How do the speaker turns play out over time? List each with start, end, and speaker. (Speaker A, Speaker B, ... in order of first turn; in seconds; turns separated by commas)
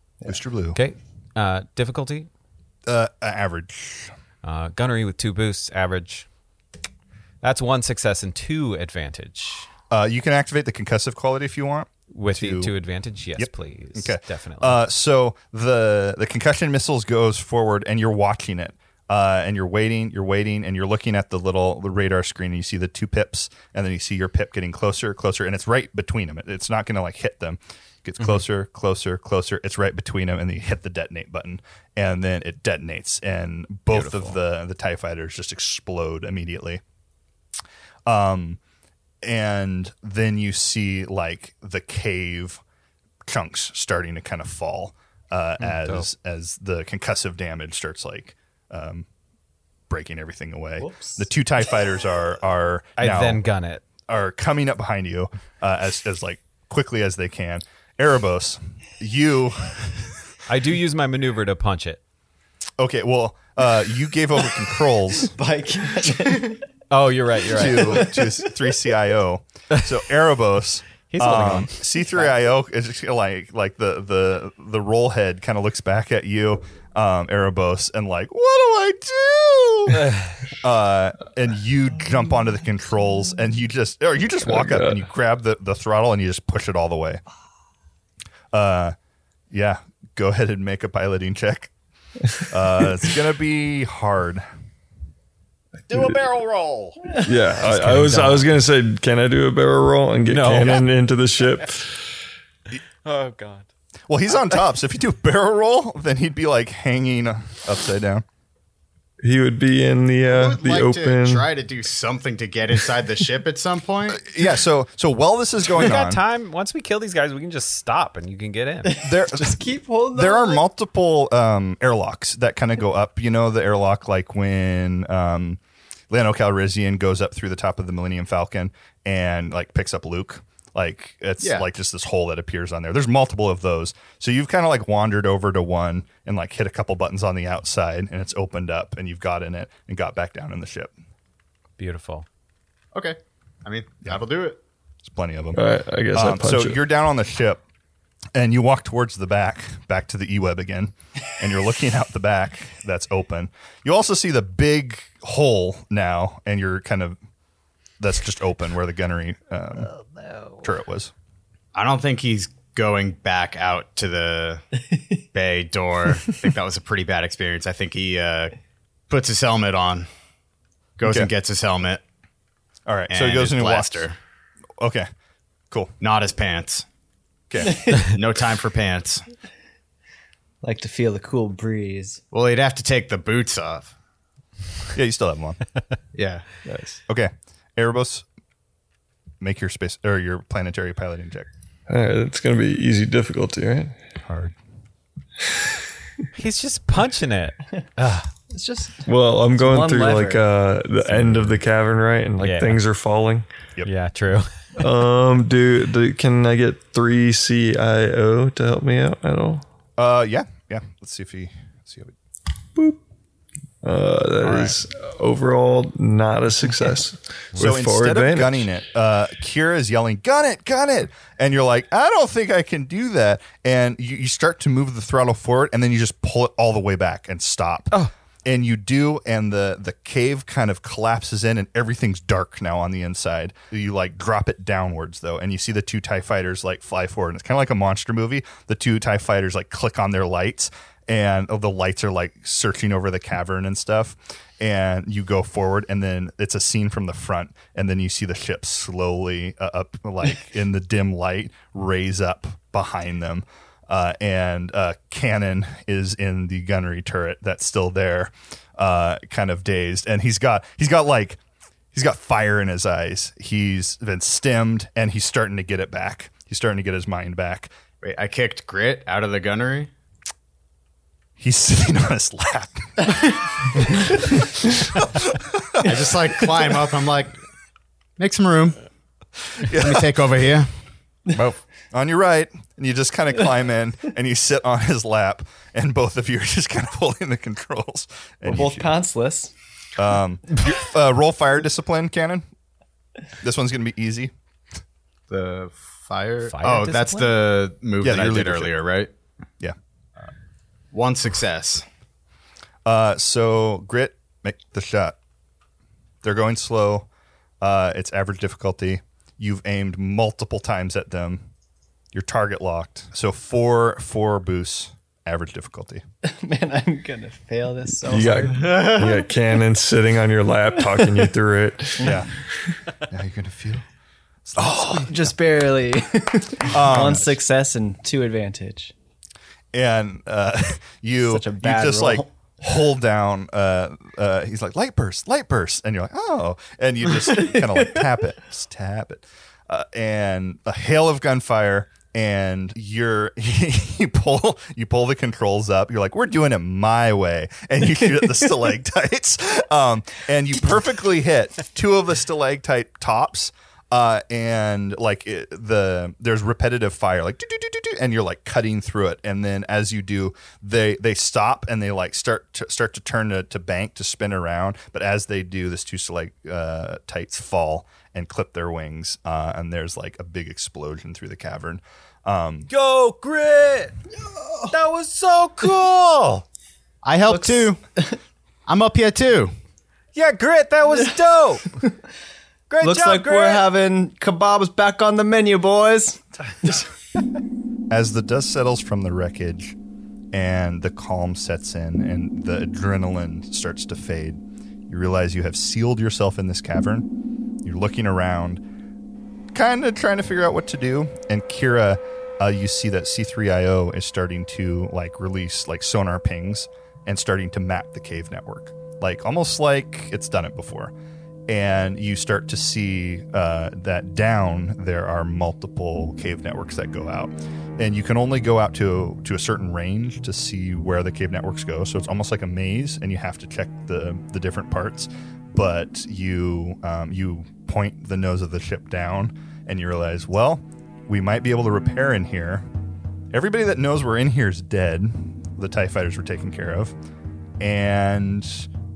Speaker A: 0.3-0.8, Speaker B: 0.7-2.3, Speaker A: 2.9-4.1, Speaker B: 4.4-6.3, Speaker B: 7.4-9.7, Speaker A: 9.9-12.7, Speaker B: 12.1-14.8, Speaker A: 13.3-36.8, Speaker B: 33.9-34.4, Speaker A: 38.1-38.6, Speaker A: 39.2-42.6, Speaker A: 43.3-49.1, Speaker B: 45.6-46.1, Speaker A: 49.9-53.4, Speaker C: 50.8-51.2, Speaker B: 53.0-53.8, Speaker A: 54.1-60.2, Speaker B: 60.5-62.0, Speaker A: 62.8-65.3, Speaker C: 65.3-66.6, Speaker B: 66.9-68.1, Speaker A: 67.5-87.2, Speaker C: 67.8-68.5, Speaker B: 71.1-71.8, Speaker B: 80.0-80.3, Speaker D: 84.5-85.0, Speaker A: 88.5-89.0, Speaker A: 89.5-91.7, Speaker A: 92.5-94.4, Speaker B: 95.9-98.5, Speaker D: 97.2-101.9, Speaker B: 100.3-100.9, Speaker B: 103.0-103.7, Speaker A: 104.1-108.2, Speaker D: 109.2-111.5, Speaker E: 110.3-114.3, Speaker A: 114.1-116.2, Speaker B: 115.7-119.0, Speaker C: 118.9-120.6, Speaker A: 119.0-140.9, Speaker B: 141.8-142.3, Speaker E: 142.9-144.6, Speaker A: 145.0-145.6, Speaker D: 145.6-146.8, Speaker A: 146.1-147.6, Speaker A: 148.4-157.2, Speaker A: 158.0-159.9, Speaker C: 159.9-160.5, Speaker A: 160.6-161.1, Speaker E: 161.7-164.7, Speaker E: 165.2-168.6, Speaker E: 169.1-170.1, Speaker E: 171.0-172.0, Speaker A: 172.9-174.1, Speaker E: 173.1-174.2, Speaker A: 174.8-175.1, Speaker E: 176.0-176.8, Speaker A: 177.5-177.8, Speaker C: 177.6-178.0, Speaker E: 177.9-179.2, Speaker C: 180.6-182.2, Speaker E: 182.3-183.9, Speaker A: 184.9-185.6, Speaker E: 186.2-186.5, Speaker A: 187.1-188.2, Speaker A: 189.4-191.5, Speaker D: 191.9-194.0, Speaker A: 194.2-194.6, Speaker B: 196.3-198.3, Speaker C: 198.5-200.4, Speaker D: 199.1-203.5, Speaker B: 202.4-202.8, Speaker B: 203.8-204.5, Speaker D: 204.8-209.6, Speaker A: 210.0-212.1, Speaker D: 213.8-218.7, Speaker E: 214.4-214.8, Speaker A: 217.6-227.9, Speaker A: 228.4-261.4, Speaker A: 261.9-267.7, Speaker E: 268.0-269.9, Speaker A: 271.4-276.8, Speaker E: 275.8-277.4, Speaker E: 278.2-278.8, Speaker A: 279.5-280.1, Speaker E: 279.7-280.7, Speaker A: 281.9-289.0, Speaker C: 288.4-289.5, Speaker A: 290.0-292.4, Speaker A: 293.4-294.3, Speaker E: 295.3-299.1, Speaker B: 296.5-297.3, Speaker A: 298.0-298.7, Speaker E: 300.9-301.9, Speaker A: 302.9-305.2, Speaker A: 306.2-307.1, Speaker A: 307.6-311.5, Speaker A: 312.1-316.0, Speaker C: 316.2-319.0, Speaker D: 318.1-322.1, Speaker E: 318.6-319.2, Speaker C: 322.0-322.2, Speaker A: 322.0-322.3, Speaker A: 323.1-323.9, Speaker A: 324.5-325.3, Speaker C: 324.6-328.9, Speaker A: 326.6-327.4, Speaker A: 329.7-372.7, Speaker C: 331.3-332.3, Speaker B: 372.7-373.9, Speaker C: 374.2-374.7, Speaker B: 374.7-376.4, Speaker E: 377.0-377.8, Speaker C: 377.3-378.2, Speaker E: 378.7-379.5, Speaker B: 380.1-381.8, Speaker B: 382.7-383.6, Speaker C: 382.8-386.8, Speaker A: 387.9-389.8, Speaker A: 390.3-397.1, Speaker A: 397.6-398.6, Speaker A: 399.5-410.9, Speaker A: 411.5-432.6, Speaker A: 433.3-436.9, Speaker A: 437.6-438.7